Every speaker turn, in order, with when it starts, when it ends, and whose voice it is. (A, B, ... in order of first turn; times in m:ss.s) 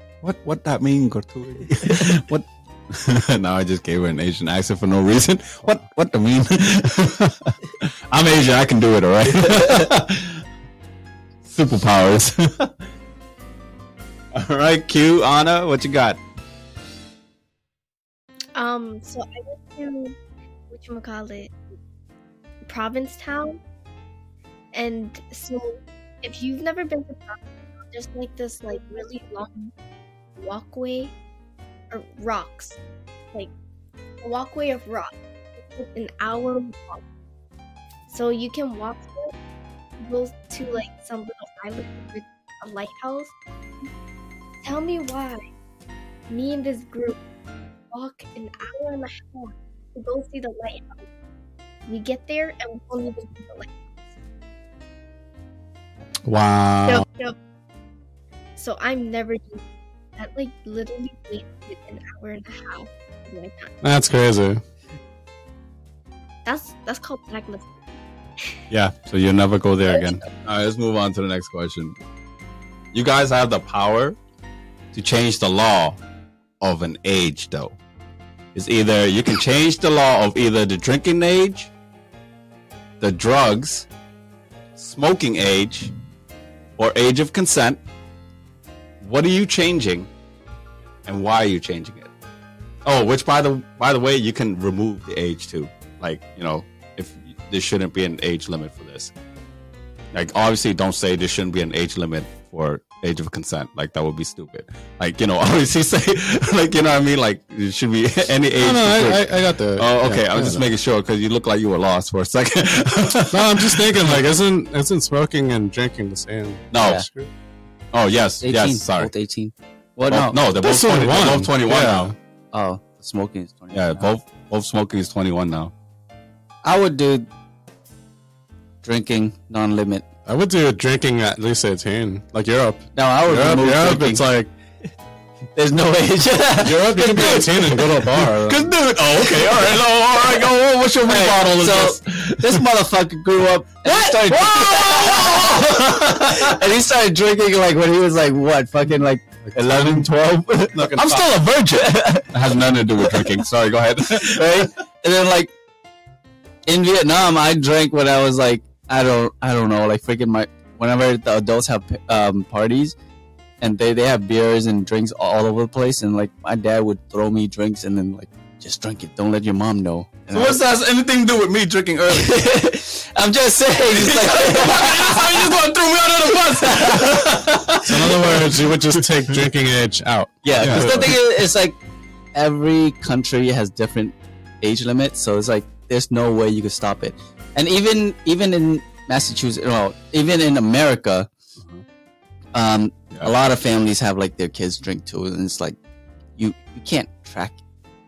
0:00.2-0:10.4 A
0:11.4-0:12.7 A
0:14.3-0:16.2 A
0:18.5-0:20.2 B
0:20.7-0:21.5 B
0:22.6-0:23.6 B
0:24.7-0:29.7 B
0:30.4-0:31.1 B
0:31.9-0:32.8 B
0:34.2-0:37.0 B
0:38.1-0:39.3 B
0:40.0-0:43.3 B
0:44.6-0:45.4 B
0:46.3-0:47.2 B
0:47.9-0:51.0 B
0:51.8-0:53.8 B
0:56.2-0:57.0 C
0:56.8-0:57.4 B
0:58.6-0:59.6 B
1:00.2-1:03.7 B
1:03.8-1:04.6 C
1:06.4-1:07.8 B
1:08.7-1:12.0 A
1:09.9-1:10.1 B
1:12.9-1:14.2 A
1:14.9-1:16.0 A
1:16.6-1:17.8 A
1:18.5-1:21.7 A
1:23.0-1:23.9 A
1:24.8-1:25.9 A
1:26.8-1:27.8 A
1:29.0-1:30.1 A
1:31.0-1:32.1 A
1:32.8-1:39.1 A
1:40.1-1:54.2 A
1:48.6-1:50.6 C
1:53.3-1:57.3 C
1:56.7-1:57.0 A
1:56.8-1:57.1 D
1:57.9-1:59.1 A
1:58.4-2:00.4 D
2:00.1-2:02.1 A
2:00.6-2:02.1 C
2:02.5-2:04.1 D
2:03.7-2:05.7 A
2:06.6-2:07.3 D
2:08.8-2:10.0 D
2:10.3-2:14.5 C
2:13.0-2:14.2 D
2:15.5-2:17.9 D
2:16.6-2:18.7 C
2:16.9-2:22.6 A
2:19.3-2:20.5 D
2:21.0-2:31.0 D
2:23.8-2:26.6 A
2:29.6-2:30.0 C
2:30.7-2:31.2 C
2:30.8-2:34.7 A
2:31.7-2:32.3 D
2:34.2-2:35.5 D
2:36.6-2:42.9 D
2:43.6-2:50.6 D
2:50.3-2:52.5 A
2:52.1-2:55.6 D
2:53.9-2:58.4 A
2:56.3-2:58.5 D
2:57.8-3:01.2 C
3:00.4-3:01.8 D
3:00.6-3:01.2 A
3:02.3-3:11.3 D
3:12.5-3:15.8 D
3:16.4-3:17.6 D